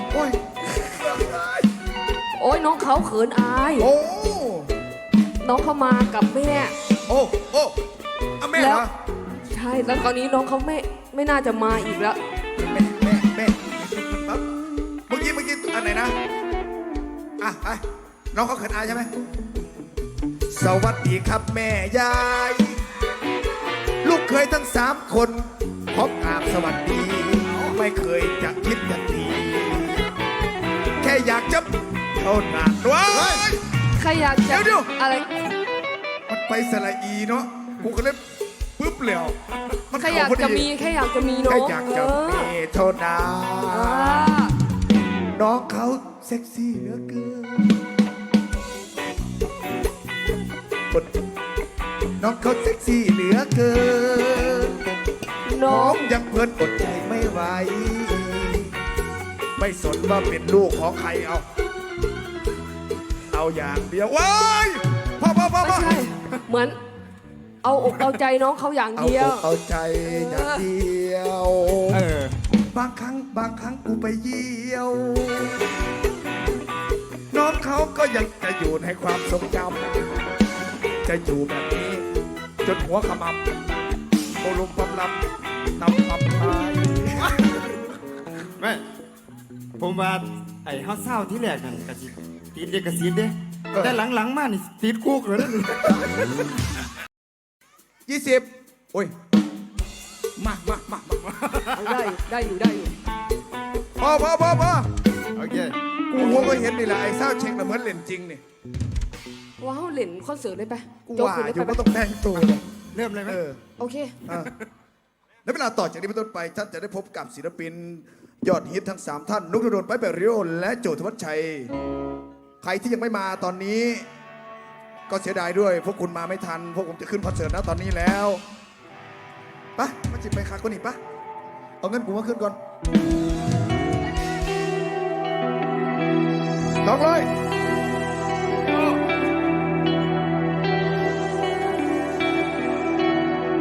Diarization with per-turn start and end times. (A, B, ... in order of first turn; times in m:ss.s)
0:00.1-0:01.7 A
0:02.4-0:03.9 B
0:03.8-0:04.7 A
0:05.4-0:06.7 B
0:07.1-0:07.8 A
0:08.4-0:08.9 A
0:08.6-0:08.9 B
0:09.5-0:12.2 B
0:12.7-0:14.4 A
0:15.1-0:16.2 A
0:17.4-0:19.1 A
0:20.5-0:22.8 A
0:24.0-0:30.0 A
0:31.0-0:33.6 A
0:33.1-0:33.5 C
0:34.0-0:35.3 B
0:34.5-0:34.9 A
0:36.3-0:38.2 A
0:38.8-0:39.4 A
0:39.9-0:40.7 A
0:40.0-0:42.5 B
0:41.4-0:44.3 A
0:43.7-0:44.5 B
0:45.3-0:47.8 A
0:52.2-0:54.8 A
0:55.5-0:56.0 B
0:55.7-0:58.8 A
0:59.6-1:01.5 A
1:03.3-1:06.1 A
1:05.6-1:06.8 B
1:07.6-1:09.4 B
1:09.0-1:12.0 A
1:10.0-1:10.7 B
1:11.9-1:12.3 C
1:12.7-1:15.6 A
1:17.3-1:19.9 A
1:21.0-1:22.0 A
1:22.6-1:23.4 A
1:24.4-1:25.2 A
1:25.8-1:27.3 A
1:28.6-1:28.8 C
1:29.8-1:36.1 C
1:38.1-1:39.1 A
1:40.4-1:41.7 A
1:41.8-1:42.9 B
1:44.0-1:44.9 A
1:45.4-1:46.6 C
1:46.1-1:48.4 A
1:49.6-1:52.4 B
1:51.1-1:52.6 A
1:52.9-1:53.4 C
1:53.3-1:53.6 A
1:53.8-1:54.2 B
1:54.3-1:54.5 A
1:55.4-2:01.7 A
2:02.6-2:04.0 A
2:05.1-2:08.4 A
2:09.8-2:11.0 A
2:11.8-2:12.6 A
2:16.8-2:17.3 A